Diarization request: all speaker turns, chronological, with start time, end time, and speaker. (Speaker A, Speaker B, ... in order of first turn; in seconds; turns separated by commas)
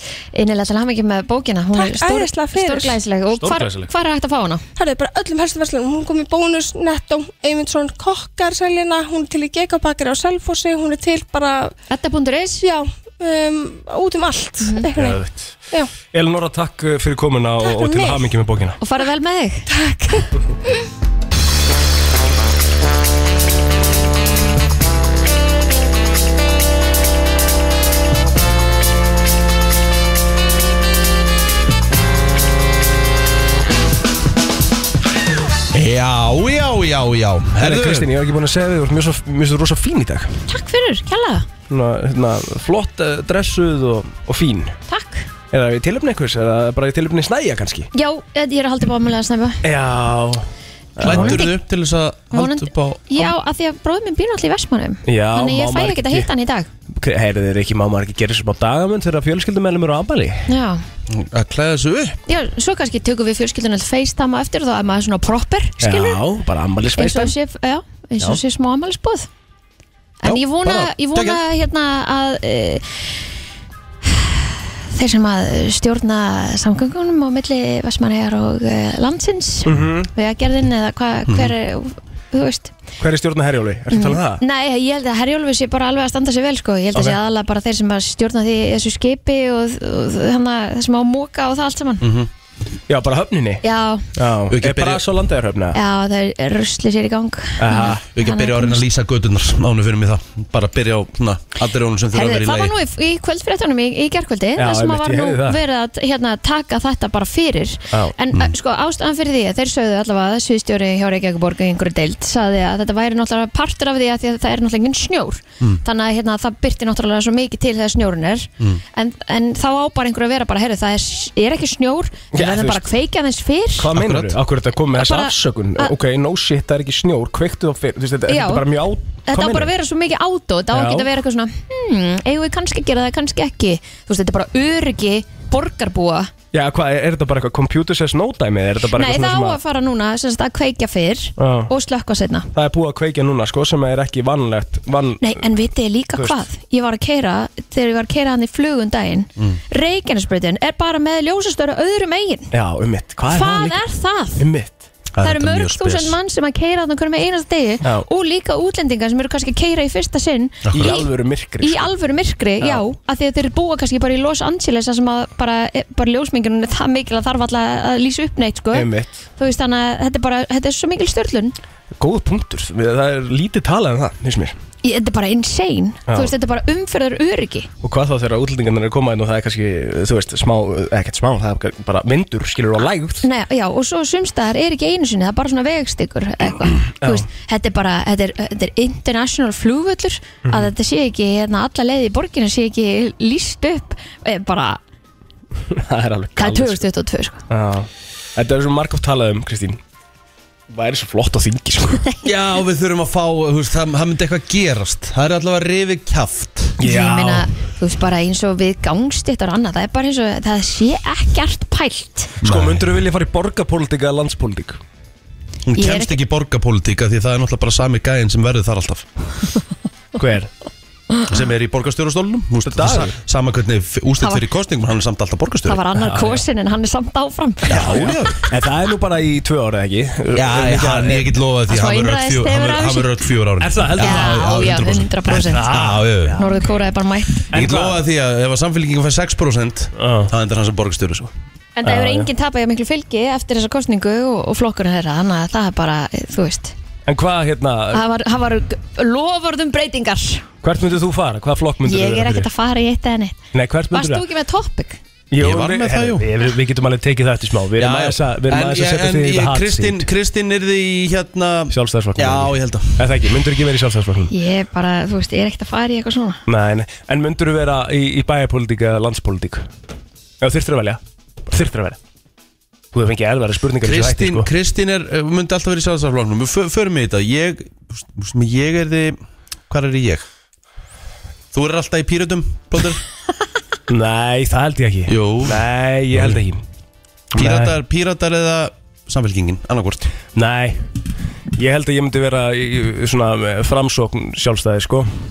Speaker A: 0.3-4.6, Speaker B: 1.7-3.0, Speaker C: 3.4-3.9, Speaker B: 4.8-11.7, Speaker A: 11.9-12.7, Speaker B: 12.6-15.2, Speaker A: 14.6-14.9, Speaker C: 14.9-18.8, Speaker B: 17.6-18.2, Speaker A: 18.8-20.2, Speaker B: 19.7-20.8, Speaker D: 35.7-38.1, Speaker C: 37.6-40.4, Speaker A: 40.5-41.5, Speaker C: 41.7-44.8, Speaker A: 44.9-45.3, Speaker C: 45.5-47.9, Speaker A: 47.9-49.6, Speaker C: 49.6-51.5, Speaker D: 51.0-53.3, Speaker A: 51.0-51.5, Speaker A: 52.3-56.7, Speaker C: 55.0-56.3, Speaker C: 57.0-60.5, Speaker A: 60.5-60.8, Speaker D: 61.1-62.2, Speaker A: 62.3-66.2, Speaker C: 65.8-67.3, Speaker A: 67.0-69.3, Speaker A: 70.2-73.0, Speaker D: 70.2-71.4, Speaker A: 74.0-82.7, Speaker C: 79.6-80.1, Speaker D: 81.3-81.5, Speaker C: 83.0-84.4, Speaker A: 83.9-92.1, Speaker D: 92.0-92.3, Speaker C: 92.9-93.6, Speaker A: 93.6-94.1, Speaker C: 94.1-95.8, Speaker D: 94.5-95.0, Speaker A: 95.7-98.8, Speaker C: 97.6-98.0, Speaker D: 98.1-102.8, Speaker A: 102.1-123.9, Speaker C: 104.6-105.6, Speaker C: 122.3-122.9, Speaker C: 123.8-129.7, Speaker D: 123.9-124.4, Speaker A: 124.9-125.9, Speaker A: 128.3-128.7, Speaker A: 129.2-136.3, Speaker C: 130.7-131.1, Speaker C: 136.5-139.6, Speaker A: 138.9-142.5, Speaker C: 141.4-141.7, Speaker C: 142.5-145.4, Speaker A: 145.2-152.5, Speaker C: 152.5-153.8, Speaker A: 153.3-154.4, Speaker C: 154.4-154.8, Speaker D: 155.1-156.2, Speaker A: 155.2-161.1, Speaker D: 160.6-161.0, Speaker C: 160.7-161.9, Speaker A: 161.6-171.5, Speaker C: 168.7-169.2, Speaker C: 172.0-174.5, Speaker A: 174.8-177.7, Speaker C: 176.1-176.3, Speaker C: 177.8-183.2, Speaker A: 183.2-194.8, Speaker C: 187.0-187.2, Speaker C: 190.4-190.7, Speaker C: 195.7-196.8, Speaker A: 196.4-197.4, Speaker C: 197.5-199.8, Speaker C: 200.7-202.0, Speaker D: 202.2-206.8, Speaker C: 206.8-207.5, Speaker A: 206.8-212.3, Speaker D: 212.4-213.0, Speaker C: 212.4-214.8, Speaker D: 215.7-219.1, Speaker A: 215.8-216.2, Speaker C: 220.2-220.5, Speaker D: 221.3-225.8, Speaker C: 222.6-223.1, Speaker A: 225.7-228.1, Speaker C: 226.0-226.4, Speaker D: 227.7-228.5, Speaker C: 227.7-231.3, Speaker D: 230.3-236.4, Speaker A: 231.7-233.2, Speaker C: 233.6-236.6, Speaker A: 234.0-235.7, Speaker A: 236.4-237.4, Speaker C: 237.5-238.0, Speaker D: 237.5-241.3, Speaker C: 239.9-240.3, Speaker A: 241.8-246.7, Speaker C: 241.8-242.3, Speaker C: 247.1-248.0, Speaker A: 247.9-250.5, Speaker C: 250.6-252.5, Speaker A: 251.8-253.4, Speaker C: 253.5-254.2, Speaker A: 253.9-255.0, Speaker C: 255.3-260.1, Speaker D: 255.4-256.3, Speaker D: 257.8-263.2, Speaker C: 261.7-264.3, Speaker A: 264.3-266.4, Speaker C: 266.5-269.7, Speaker C: 270.4-272.0, Speaker C: 272.9-274.5, Speaker D: 273.8-280.2, Speaker D: 281.5-283.0, Speaker C: 283.9-286.6, Speaker D: 285.1-286.4, Speaker C: 287.3-287.8, Speaker D: 287.3-290.1, Speaker C: 290.3-290.9, Speaker C: 291.6-295.1